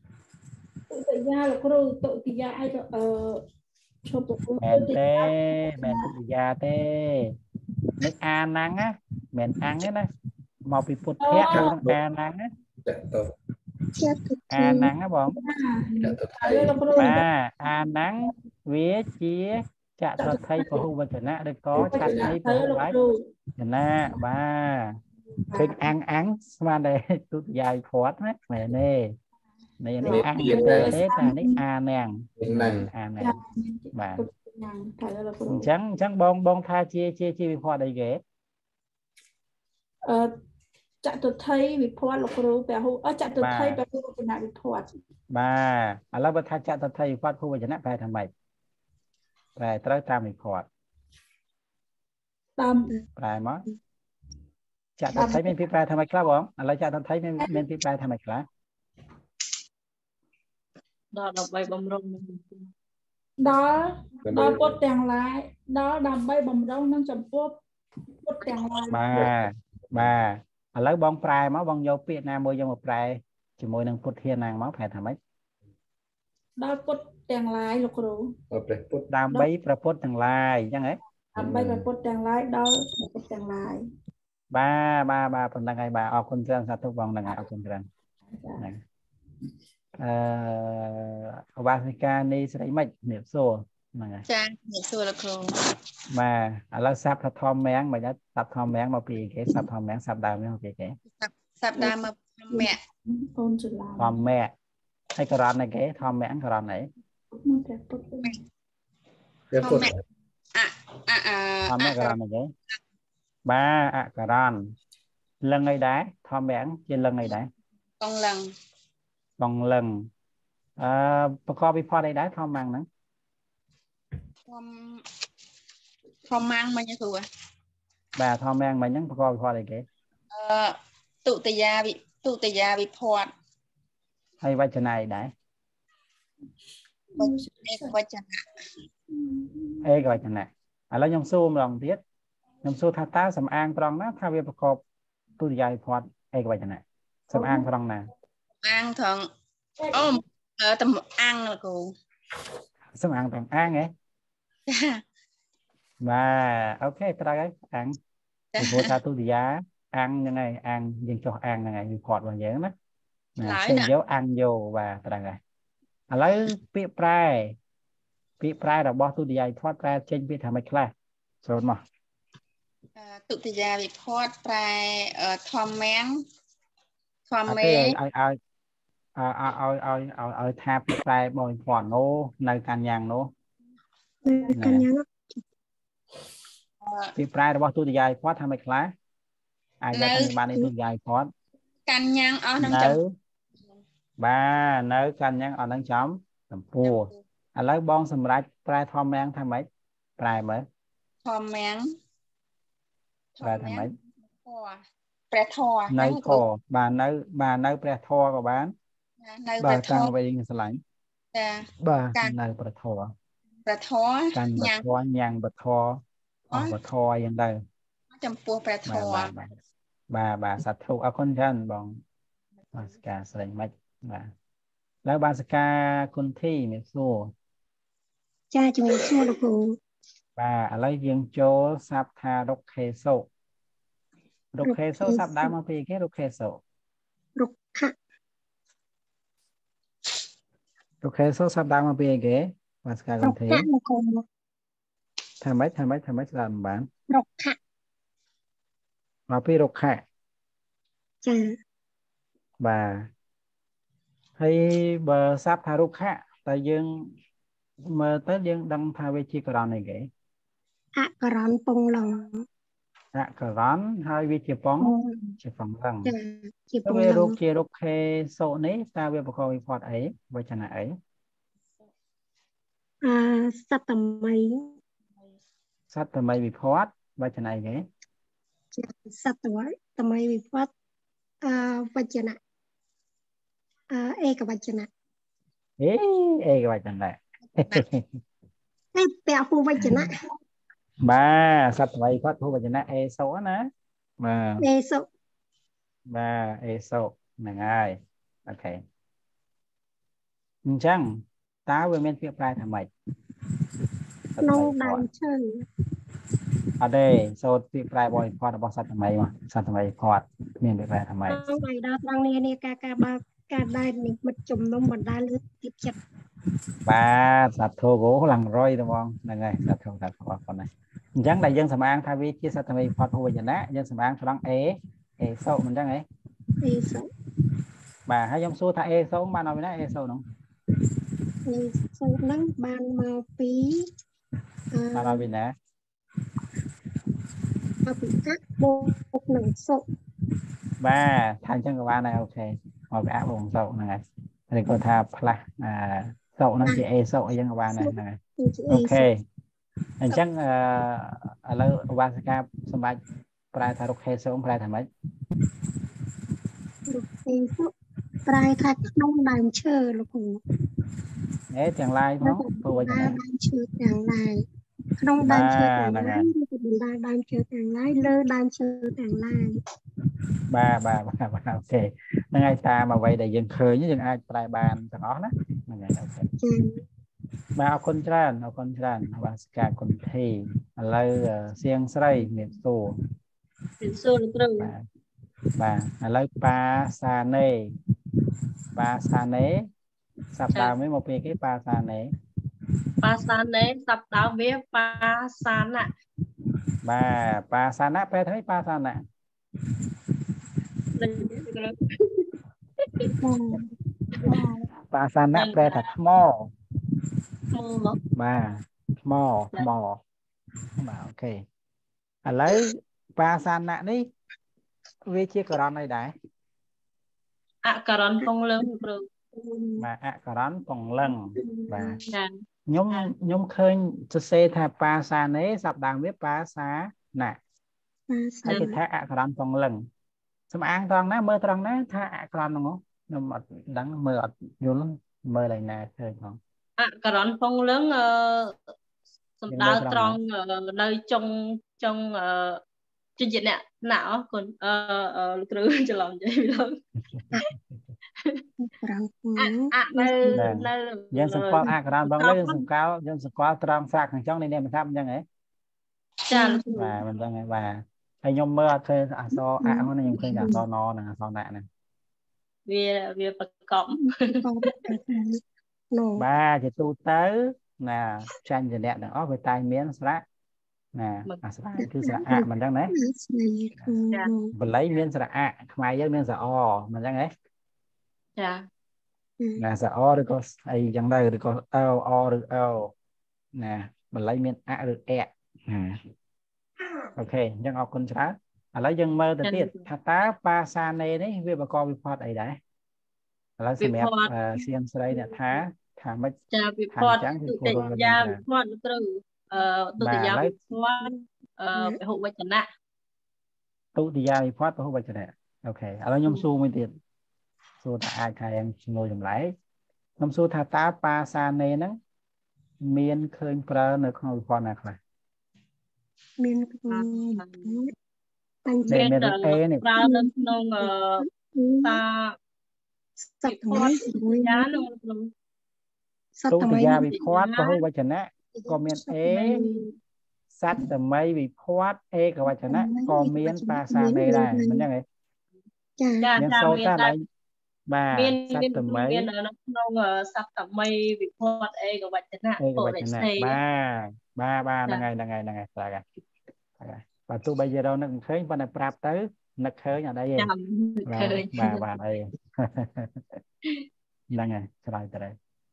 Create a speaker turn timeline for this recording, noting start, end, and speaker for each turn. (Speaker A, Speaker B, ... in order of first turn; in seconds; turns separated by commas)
Speaker A: 0.9-3.4, Speaker A: 4.0-6.1, Speaker B: 4.6-7.3, Speaker B: 8.0-10.1, Speaker B: 10.7-12.5, Speaker A: 11.2-11.7, Speaker C: 11.5-12.0, Speaker C: 12.8-13.3, Speaker D: 14.0-14.9, Speaker B: 14.5-15.4, Speaker A: 15.4-17.2, Speaker C: 16.0-17.0, Speaker B: 17.0-23.0, Speaker A: 20.2-20.9, Speaker C: 21.8-22.4, Speaker A: 21.8-23.2, Speaker B: 23.6-25.0, Speaker A: 25.5-25.9, Speaker B: 25.5-29.1, Speaker B: 29.8-33.4, Speaker A: 30.0-31.6, Speaker C: 30.0-31.0, Speaker C: 32.4-32.9, Speaker A: 33.2-35.7, Speaker B: 33.9-34.3, Speaker B: 35.5-38.2, Speaker A: 41.0-44.9, Speaker B: 43.4-43.8, Speaker B: 45.3-48.3, Speaker B: 49.6-50.7, Speaker A: 52.6-53.0, Speaker B: 53.2-53.6, Speaker B: 55.0-58.5, Speaker A: 55.1-55.5, Speaker E: 61.1-62.7, Speaker A: 63.4-67.6, Speaker C: 64.2-64.8, Speaker A: 68.2-69.0, Speaker B: 68.9-75.2, Speaker C: 69.1-70.1, Speaker A: 76.6-78.3, Speaker C: 78.5-79.1, Speaker B: 79.1-81.0, Speaker A: 81.3-83.8, Speaker C: 81.4-81.8, Speaker B: 84.5-87.9, Speaker A: 88.3-88.6, Speaker B: 90.0-94.2, Speaker F: 94.3-95.6, Speaker B: 96.1-101.0, Speaker F: 101.2-102.8, Speaker A: 102.5-104.2, Speaker B: 104.0-104.5, Speaker B: 105.2-106.9, Speaker A: 107.4-108.4, Speaker C: 109.5-110.0, Speaker F: 109.6-110.0, Speaker F: 110.5-112.2, Speaker B: 111.7-112.5, Speaker B: 113.5-114.7, Speaker B: 115.4-117.5, Speaker F: 118.0-118.5, Speaker B: 119.4-120.1, Speaker B: 120.8-122.9, Speaker F: 124.5-125.0, Speaker F: 126.2-127.3, Speaker B: 128.2-129.9, Speaker F: 130.3-133.3, Speaker B: 134.4-135.3, Speaker A: 137.2-138.0, Speaker F: 137.2-138.4, Speaker A: 139.1-139.8, Speaker B: 139.8-142.0, Speaker B: 142.6-144.8, Speaker B: 145.4-148.1, Speaker A: 147.3-147.7, Speaker F: 148.6-149.3, Speaker A: 149.8-150.2, Speaker F: 149.9-151.9, Speaker B: 152.9-153.9, Speaker F: 154.7-155.0, Speaker B: 156.0-158.0, Speaker F: 158.6-159.0, Speaker B: 158.6-162.7, Speaker B: 163.4-165.4, Speaker F: 163.4-163.9, Speaker B: 166.1-167.6, Speaker B: 168.4-170.9, Speaker B: 171.4-171.8, Speaker F: 173.0-176.2, Speaker F: 177.3-178.0, Speaker B: 177.5-178.4, Speaker B: 179.2-183.3, Speaker D: 184.2-185.4, Speaker B: 184.5-184.9, Speaker F: 186.8-187.1, Speaker B: 187.2-188.9, Speaker B: 189.8-191.3, Speaker F: 189.9-190.7, Speaker F: 191.9-193.0, Speaker B: 192.6-193.1, Speaker B: 194.2-199.7, Speaker F: 196.8-197.2, Speaker B: 200.2-200.7, Speaker F: 201.2-201.9, Speaker F: 203.4-203.9, Speaker B: 203.4-203.9, Speaker F: 204.4-206.4, Speaker B: 205.9-208.7, Speaker F: 209.2-210.1, Speaker B: 209.6-210.8, Speaker F: 211.3-212.4, Speaker B: 211.8-213.1, Speaker F: 213.7-214.9, Speaker B: 214.3-216.0, Speaker B: 216.5-217.6, Speaker F: 218.2-219.3, Speaker B: 218.8-219.6, Speaker B: 220.1-222.0, Speaker B: 222.7-224.3, Speaker B: 225.1-227.3, Speaker D: 228.5-229.8, Speaker B: 230.4-233.2, Speaker B: 234.6-236.6, Speaker D: 234.6-235.5, Speaker D: 237.4-237.9, Speaker B: 241.0-243.7, Speaker D: 243.2-244.2, Speaker B: 245.4-246.9, Speaker D: 247.1-247.6, Speaker B: 249.3-250.0, Speaker D: 251.2-251.5, Speaker B: 252.6-253.1, Speaker B: 254.4-257.1, Speaker B: 257.9-260.1, Speaker D: 261.0-262.5, Speaker B: 263.1-266.1, Speaker D: 264.8-265.3, Speaker D: 266.1-267.4, Speaker B: 266.9-271.0, Speaker D: 273.0-274.8, Speaker B: 275.9-277.9, Speaker D: 278.8-280.7, Speaker D: 281.4-282.4, Speaker D: 283.9-284.9, Speaker B: 285.8-288.2, Speaker D: 288.9-290.1, Speaker B: 291.0-293.6, Speaker B: 294.2-294.6, Speaker D: 294.6-295.1, Speaker B: 296.1-298.8, Speaker B: 300.7-301.1, Speaker B: 301.7-302.9, Speaker B: 304.4-305.1, Speaker D: 304.4-305.7, Speaker B: 306.8-311.4, Speaker D: 311.3-316.0, Speaker B: 316.9-326.1, Speaker D: 326.6-327.1, Speaker B: 328.1-330.2, Speaker D: 331.5-333.9, Speaker D: 334.7-335.3, Speaker B: 334.9-335.5, Speaker D: 337.9-339.8, Speaker B: 340.8-348.2, Speaker D: 347.8-349.1, Speaker B: 348.7-349.1, Speaker B: 350.0-353.0, Speaker B: 353.5-354.9, Speaker D: 356.9-357.7, Speaker D: 358.3-360.4, Speaker B: 361.5-363.2, Speaker D: 362.2-364.4, Speaker D: 365.0-369.6, Speaker B: 365.2-366.3, Speaker B: 370.5-376.3, Speaker D: 376.4-376.8, Speaker B: 377.6-382.9, Speaker E: 383.8-384.7, Speaker B: 385.6-387.5, Speaker B: 388.8-389.6, Speaker B: 390.3-392.1, Speaker E: 393.0-395.9, Speaker B: 396.8-399.0, Speaker E: 401.0-402.3, Speaker E: 402.8-403.1, Speaker D: 403.2-403.7, Speaker E: 404.2-404.5, Speaker D: 404.2-404.6, Speaker B: 404.9-406.5, Speaker E: 405.4-405.9, Speaker E: 407.5-408.0, Speaker B: 408.1-410.0, Speaker B: 410.8-411.4, Speaker B: 412.3-414.0, Speaker B: 415.1-416.1, Speaker E: 417.6-419.1, Speaker D: 419.3-419.8, Speaker B: 419.8-422.0, Speaker D: 421.4-422.1, Speaker E: 422.1-422.4, Speaker B: 422.7-427.4, Speaker D: 428.1-428.8, Speaker B: 428.4-429.8, Speaker B: 430.5-436.4, Speaker E: 436.8-438.6, Speaker E: 439.4-442.6, Speaker B: 439.5-440.2, Speaker E: 443.2-446.8, Speaker B: 447.1-447.6, Speaker D: 448.6-450.5, Speaker E: 449.4-452.6, Speaker B: 450.3-455.2, Speaker E: 456.3-456.7, Speaker D: 456.3-457.0, Speaker B: 456.8-461.7, Speaker D: 459.6-460.6, Speaker E: 462.7-464.7, Speaker D: 464.2-466.2, Speaker B: 466.2-470.2, Speaker B: 470.9-472.9, Speaker D: 471.8-474.5, Speaker B: 474.5-477.3, Speaker E: 478.4-478.6, Speaker B: 479.6-482.9, Speaker B: 483.6-486.0, Speaker D: 486.8-487.1, Speaker B: 487.2-492.6, Speaker E: 489.4-489.8, Speaker B: 493.6-496.4, Speaker E: 493.8-494.3, Speaker E: 496.5-502.7, Speaker B: 496.9-498.4, Speaker B: 500.0-500.5, Speaker D: 501.0-502.0, Speaker B: 504.0-506.9, Speaker B: 507.8-509.5, Speaker B: 510.2-512.0, Speaker B: 512.8-515.0, Speaker D: 516.4-517.9, Speaker E: 516.9-517.8, Speaker D: 518.7-519.1, Speaker E: 518.9-521.3, Speaker B: 518.9-519.9, Speaker D: 520.0-522.0, Speaker E: 521.8-522.4, Speaker D: 523.4-524.9, Speaker E: 523.5-525.3, Speaker D: 526.4-527.2, Speaker B: 526.5-529.6, Speaker E: 527.0-527.8, Speaker D: 528.5-529.9, Speaker B: 530.6-535.0, Speaker D: 532.5-534.9, Speaker D: 536.0-536.3, Speaker E: 536.2-537.1, Speaker B: 536.4-537.2, Speaker B: 537.9-539.3, Speaker E: 538.1-543.6, Speaker B: 542.6-546.0, Speaker B: 546.8-550.5, Speaker E: 550.4-551.8, Speaker B: 551.1-553.2, Speaker B: 554.3-555.4